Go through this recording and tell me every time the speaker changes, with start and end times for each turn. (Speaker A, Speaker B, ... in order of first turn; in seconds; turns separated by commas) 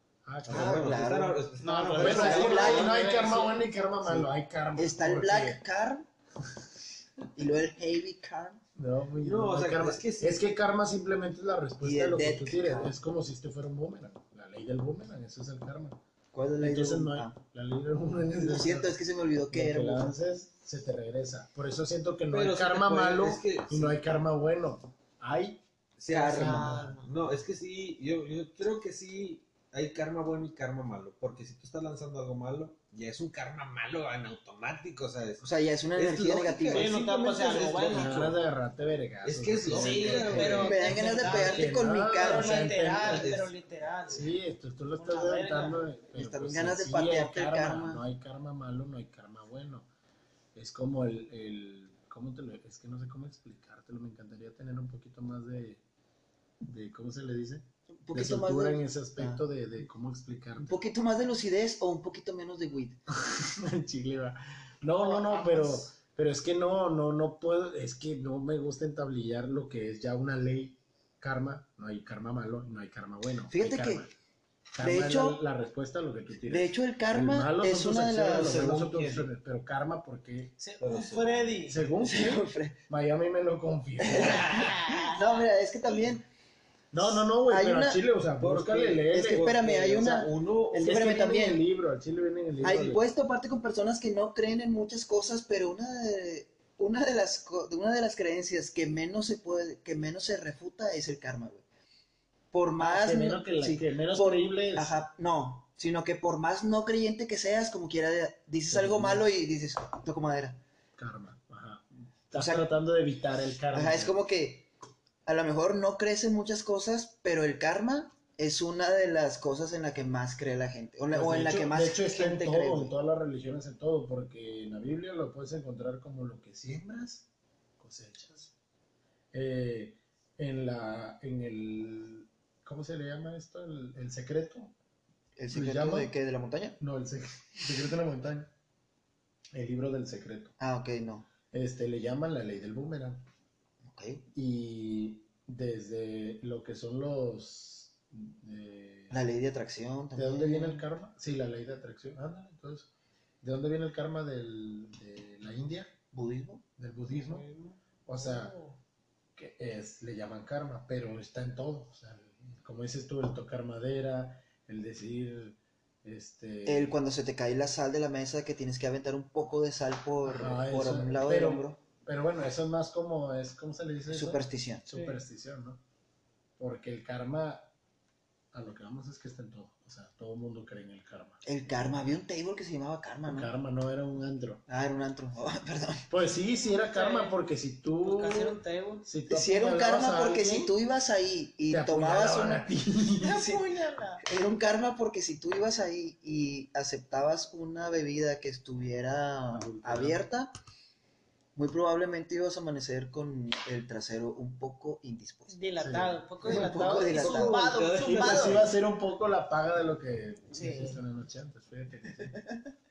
Speaker A: 0.2-1.0, Speaker B: 0.5-3.0, Speaker C: 0.5-1.4, Speaker D: 1.6-3.6, Speaker A: 1.7-5.6, Speaker C: 2.0-3.5, Speaker C: 4.0-6.1, Speaker C: 7.3-8.6, Speaker A: 8.8-16.0, Speaker B: 9.2-10.4, Speaker C: 11.8-12.9, Speaker C: 16.3-17.3, Speaker A: 16.6-18.9, Speaker C: 18.4-20.1, Speaker A: 19.5-25.6, Speaker B: 22.3-24.2, Speaker B: 26.0-38.4, Speaker C: 26.1-26.8, Speaker D: 26.3-27.1, Speaker C: 35.4-37.0, Speaker D: 36.7-38.4, Speaker A: 37.4-43.3, Speaker B: 39.2-41.2, Speaker D: 39.6-44.4, Speaker C: 40.4-42.7, Speaker B: 43.0-43.5, Speaker A: 44.1-49.9, Speaker D: 44.9-45.8, Speaker C: 46.1-48.0, Speaker A: 50.5-55.8, Speaker A: 56.6-60.8, Speaker C: 58.0-59.4, Speaker C: 60.6-63.0, Speaker A: 63.2-74.1, Speaker D: 65.0-65.9, Speaker C: 73.5-74.1, Speaker A: 74.8-80.6, Speaker C: 74.8-75.4, Speaker C: 76.5-78.6, Speaker B: 78.2-79.3, Speaker D: 80.6-81.8, Speaker B: 80.8-81.7, Speaker A: 81.6-84.8, Speaker C: 82.0-82.8, Speaker C: 84.1-86.2, Speaker D: 84.1-85.5, Speaker A: 86.9-89.5, Speaker C: 87.0-88.0, Speaker B: 88.4-91.1, Speaker C: 89.1-91.6, Speaker A: 90.7-93.0, Speaker C: 92.6-101.6, Speaker C: 102.5-110.6, Speaker A: 102.8-104.9, Speaker A: 108.7-109.3, Speaker A: 111.0-114.2, Speaker C: 112.3-112.7, Speaker C: 113.7-114.7, Speaker C: 115.2-123.0, Speaker A: 121.1-127.2, Speaker A: 127.8-128.5, Speaker A: 129.3-134.7, Speaker C: 135.4-136.8, Speaker A: 135.5-136.1, Speaker A: 136.8-138.5, Speaker A: 139.5-140.5, Speaker C: 140.6-141.3, Speaker A: 141.5-143.2, Speaker C: 143.9-144.2, Speaker A: 144.3-149.1, Speaker C: 149.1-150.9, Speaker A: 150.1-152.9, Speaker A: 153.4-155.9, Speaker C: 156.1-156.6, Speaker A: 156.8-157.4, Speaker D: 157.1-158.8, Speaker A: 158.1-158.6, Speaker A: 159.3-166.9, Speaker C: 166.7-171.8, Speaker A: 170.3-175.8, Speaker C: 174.1-174.8, Speaker D: 174.9-175.2, Speaker A: 176.6-177.7, Speaker A: 178.5-181.4, Speaker C: 181.4-183.5, Speaker A: 183.3-184.6, Speaker C: 184.7-186.1, Speaker A: 186.1-190.7, Speaker D: 186.7-187.4, Speaker D: 188.0-189.1, Speaker C: 189.3-192.7, Speaker A: 191.7-193.4, Speaker C: 193.2-193.7, Speaker D: 193.2-194.2, Speaker C: 194.2-200.5, Speaker A: 199.5-200.2, Speaker C: 201.6-205.6, Speaker D: 205.5-208.7, Speaker A: 205.8-207.1, Speaker C: 206.4-208.7, Speaker B: 207.1-208.3, Speaker A: 208.0-212.4, Speaker D: 210.5-211.0, Speaker C: 212.3-212.6